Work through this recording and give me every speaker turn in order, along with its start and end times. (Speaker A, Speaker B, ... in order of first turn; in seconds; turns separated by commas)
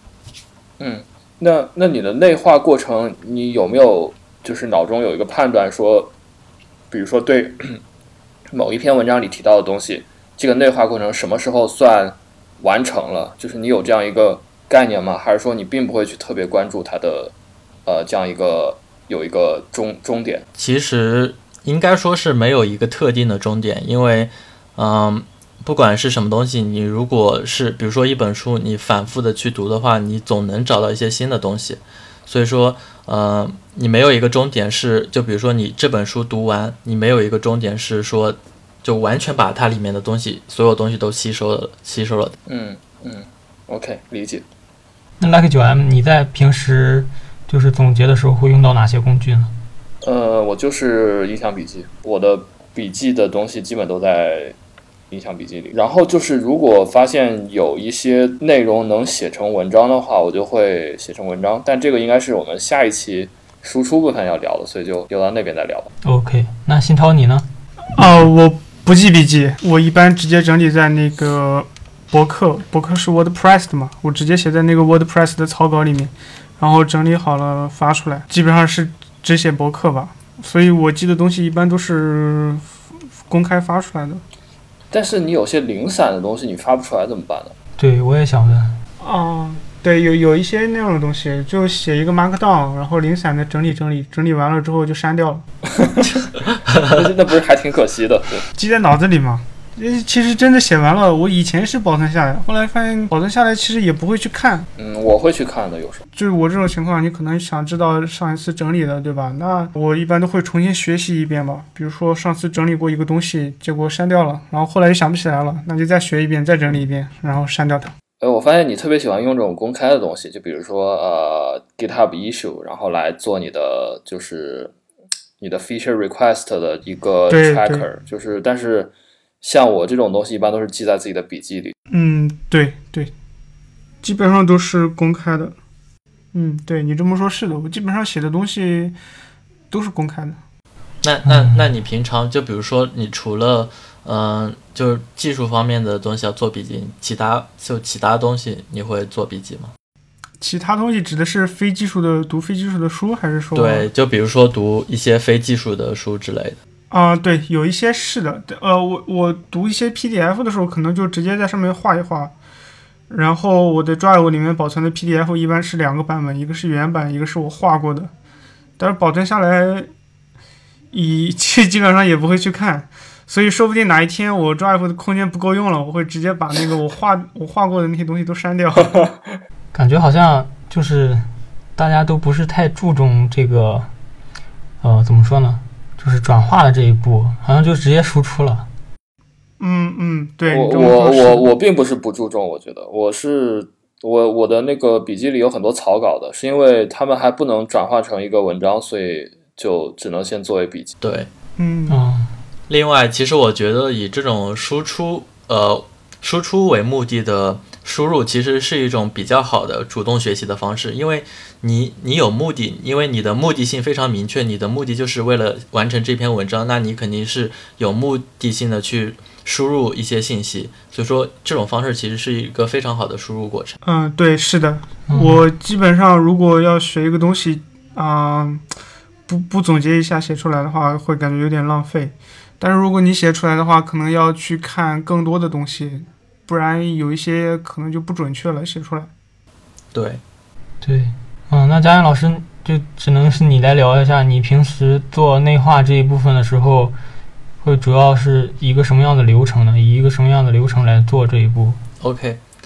Speaker A: 0.8-6.1, Speaker A: 6.9-7.8, Speaker A: 8.5-17.3, Speaker A: 17.9-20.4, Speaker B: 20.6-42.3, Speaker A: 42.5-44.4, Speaker C: 45.2-49.5, Speaker A: 50.0-54.5, Speaker A: 55.1-65.9, Speaker C: 66.0-67.5, Speaker D: 68.0-84.2, Speaker A: 84.9-87.5, Speaker C: 87.8-88.8, Speaker D: 89.0-95.4, Speaker A: 95.7-98.5, Speaker B: 96.7-97.0, Speaker D: 98.5-104.7, Speaker A: 104.8-106.0, Speaker D: 106.1-117.9, Speaker A: 118.2-124.7, Speaker A: 125.4-131.7, Speaker D: 127.3-127.8, Speaker D: 131.9-133.1, Speaker D: 134.0-135.6, Speaker D: 136.3-138.9, Speaker D: 139.7-140.4, Speaker B: 141.0-149.7, Speaker D: 150.4-153.9, Speaker B: 153.5-156.6, Speaker D: 156.9-162.3, Speaker D: 163.1-168.1, Speaker D: 168.8-169.9, Speaker D: 170.9-179.0, Speaker C: 179.7-183.9, Speaker C: 184.8-188.7, Speaker D: 189.6-191.5, Speaker A: 190.5-200.9, Speaker B: 201.0-201.3, Speaker D: 201.6-202.0, Speaker C: 201.9-202.3, Speaker B: 202.7-223.8, Speaker D: 223.8-228.6, Speaker C: 225.1-225.4, Speaker D: 229.3-239.1, Speaker B: 239.9-240.2, Speaker C: 240.8-246.9, Speaker C: 247.6-251.8, Speaker B: 252.0-252.4